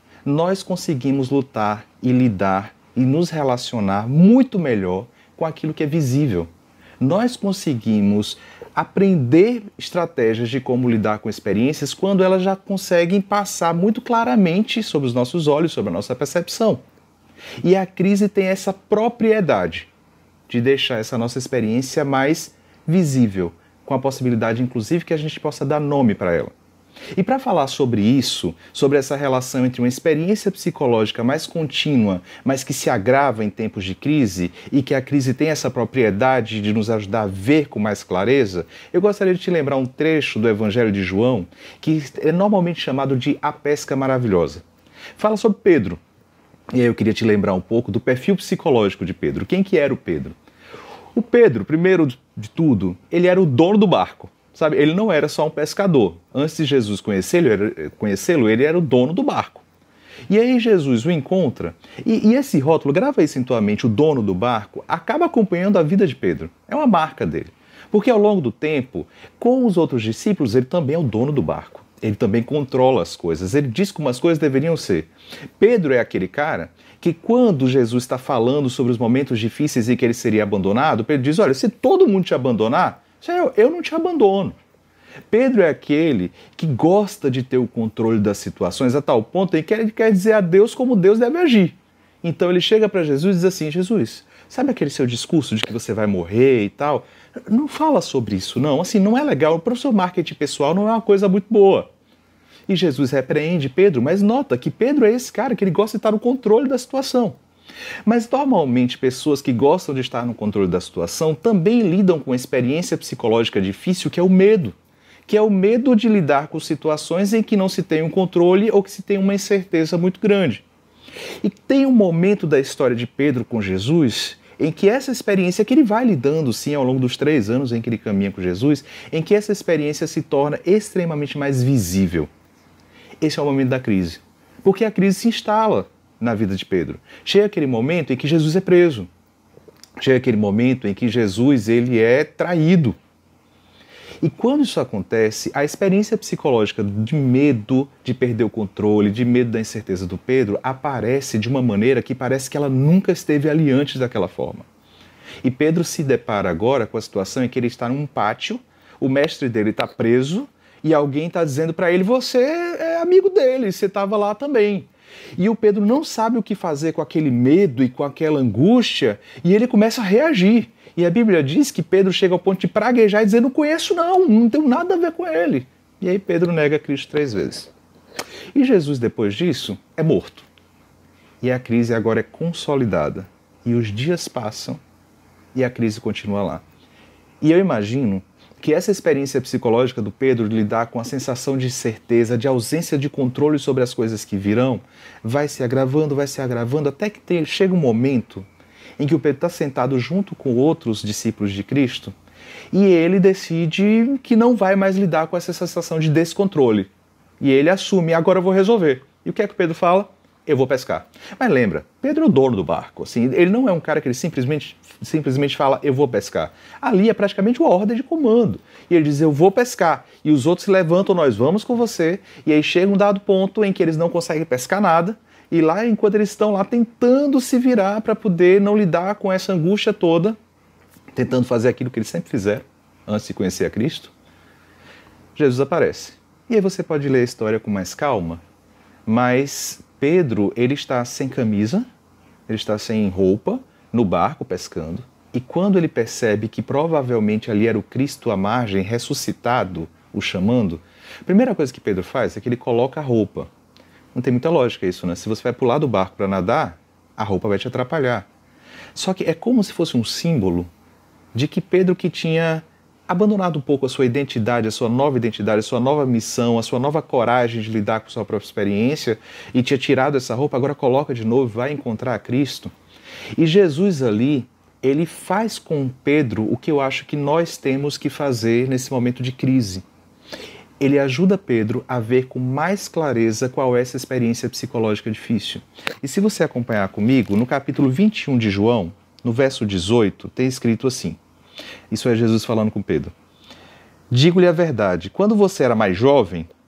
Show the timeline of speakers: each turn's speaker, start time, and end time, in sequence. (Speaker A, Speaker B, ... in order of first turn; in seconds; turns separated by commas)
Speaker A: 0.2-16.8, Speaker A: 17.6-19.9, Speaker A: 20.5-26.5, Speaker A: 27.1-44.6, Speaker A: 45.2-46.0, Speaker A: 46.7-50.4, Speaker A: 51.1-59.6, Speaker A: 60.3-84.6, Speaker A: 85.3-101.9, Speaker A: 102.7-107.4, Speaker A: 108.0-120.6, Speaker A: 121.4-132.3, Speaker A: 133.2-139.1, Speaker A: 140.0-143.0, Speaker A: 144.2-154.7, Speaker A: 155.4-177.7, Speaker A: 178.5-180.5, Speaker A: 181.4-184.8, Speaker A: 185.5-186.6, Speaker A: 187.4-198.5, Speaker A: 199.0-202.1, Speaker A: 202.7-230.4, Speaker A: 231.1-234.1, Speaker A: 235.3-238.4, Speaker A: 239.1-241.9, Speaker A: 242.5-253.5, Speaker A: 254.1-258.3, Speaker A: 258.9-260.7, Speaker A: 261.3-272.7, Speaker A: 273.4-279.8, Speaker A: 280.8-291.2, Speaker A: 291.9-293.1, Speaker A: 294.1-296.5